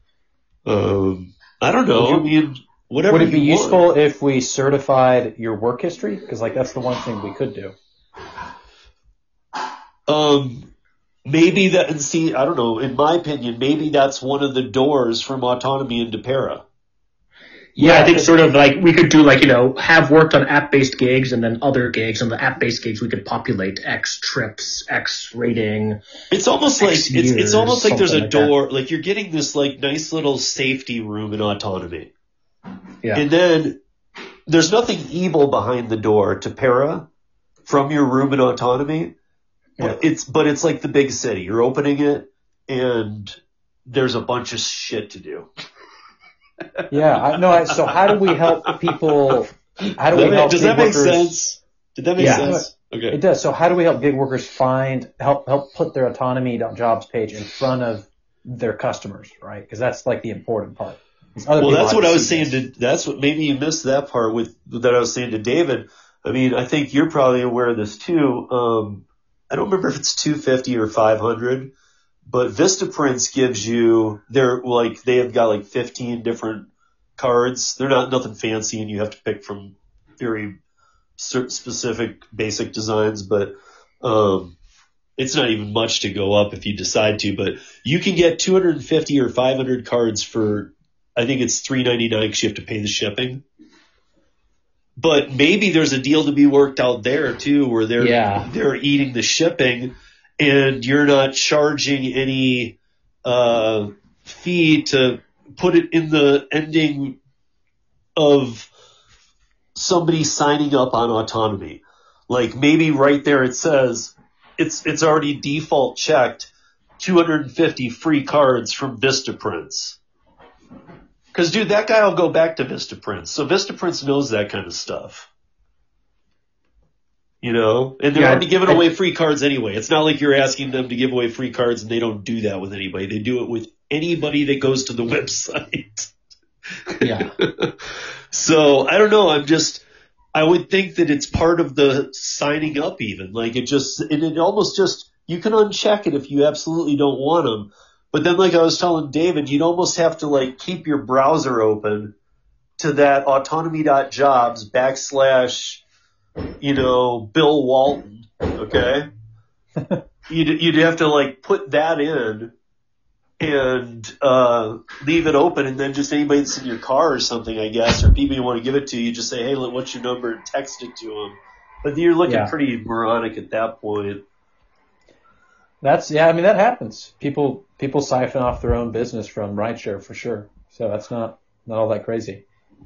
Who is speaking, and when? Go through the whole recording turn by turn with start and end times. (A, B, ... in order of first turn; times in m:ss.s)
0:00.7-0:03.9 A
0:02.0-0:02.3 B
0:03.1-0:07.8 B
0:10.1-0:10.7 A
0:11.2-0:16.6 A
0:17.8-0:26.0 C
0:17.8-0:18.3 A
0:26.3-0:32.1 A
0:26.8-0:28.5 C
0:33.1-0:33.8 A
0:34.5-0:37.1 A
0:37.6-0:39.1 A
0:39.8-0:45.5 A
0:46.9-0:51.4 B
0:47.7-0:48.3 A
0:50.1-0:53.2 A
0:52.2-0:52.5 C
0:52.2-1:02.6 B
1:01.6-1:11.7 A
1:12.3-1:20.6 A
1:21.2-1:24.6 A
1:25.2-1:33.4 A
1:35.0-1:42.7 A
1:38.0-1:38.5 C
1:43.2-1:47.2 A
1:48.2-1:48.7 A
1:49.8-2:00.0 A
2:01.3-2:05.3 A
2:07.4-2:16.1 A
2:08.1-2:08.8 C
2:16.9-2:32.1 A
2:17.0-2:17.3 C
2:32.8-2:35.8 A
2:36.6-2:39.1 A
2:40.3-2:42.5 A
2:43.4-2:54.2 A
2:52.2-2:52.5 C
2:55.8-3:02.4 B